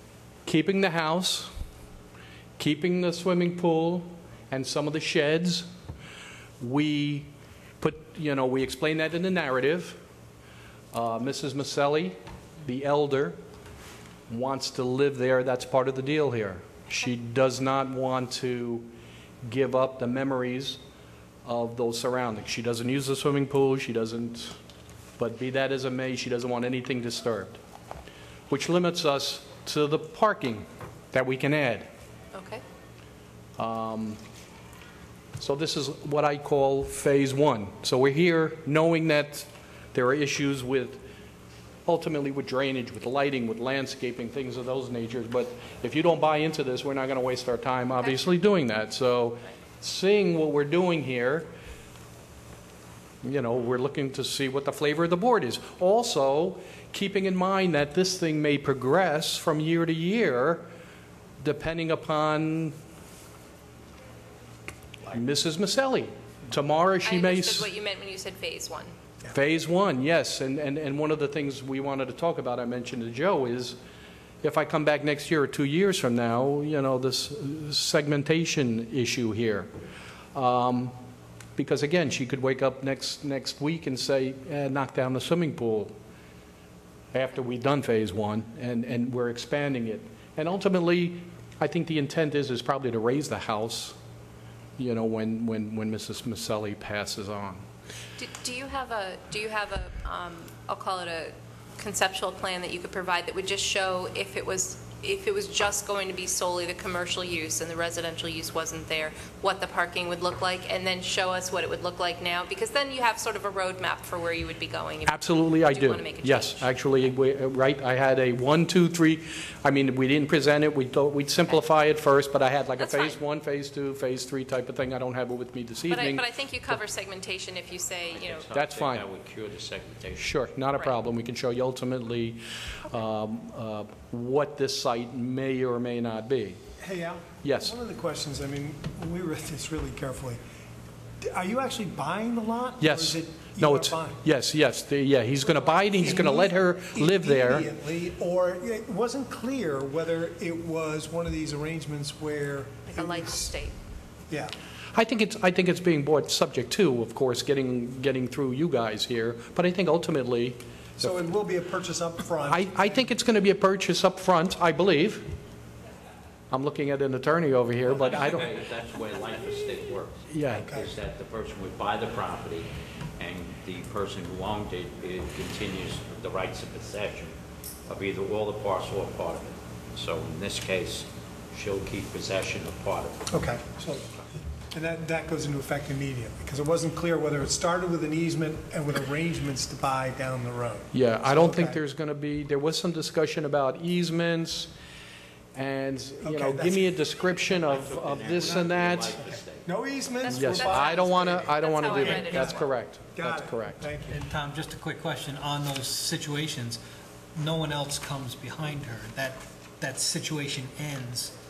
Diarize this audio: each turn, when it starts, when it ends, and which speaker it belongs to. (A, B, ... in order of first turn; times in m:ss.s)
0:00.4-0:01.5 A
0:02.6-0:05.7 A
0:06.6-0:10.0 A
0:10.9-0:13.4 A
0:14.3-0:18.9 A
0:19.4-0:20.8 A
0:21.4-0:24.6 A
0:25.2-0:27.6 A
0:28.5-0:31.9 A
0:32.3-0:32.6 B
0:33.6-0:34.2 A
0:35.4-0:41.0 A
0:41.8-0:51.5 A
0:53.2-1:00.7 A
1:01.4-1:02.8 A
1:05.0-1:07.7 A
1:07.0-1:08.9 B
1:09.3-1:13.8 A
1:14.4-1:19.7 A
1:20.3-1:21.0 A
1:21.6-1:25.9 A
1:27.1-1:34.0 A
1:34.8-1:37.6 A
1:38.2-1:56.7 B
1:55.0-2:06.7 A
2:02.8-2:03.2 B
2:05.9-2:08.5 B
2:08.1-2:10.3 C
2:08.5-2:09.0 A
2:10.2-2:16.6 A
2:16.8-2:20.4 D
2:17.4-2:17.7 A
2:21.2-2:24.2 D
2:22.8-2:27.7 A
2:25.9-2:33.5 D
2:32.9-2:33.8 B
2:34.9-2:41.1 A
2:41.0-2:43.1 D
2:42.5-2:45.2 A
2:46.5-2:48.5 A
2:47.9-2:57.3 C
2:50.3-2:50.7 A
2:50.5-2:50.9 D
2:57.9-3:03.3 C
3:03.3-3:11.8 D
3:10.9-3:14.7 A
3:15.6-3:19.1 A
3:16.2-3:17.5 D
3:17.6-3:19.7 C
3:18.4-3:24.2 D
3:20.2-3:22.7 B
3:20.3-3:20.6 C
3:20.3-3:23.8 A
3:24.1-3:26.8 E
3:27.3-3:31.3 E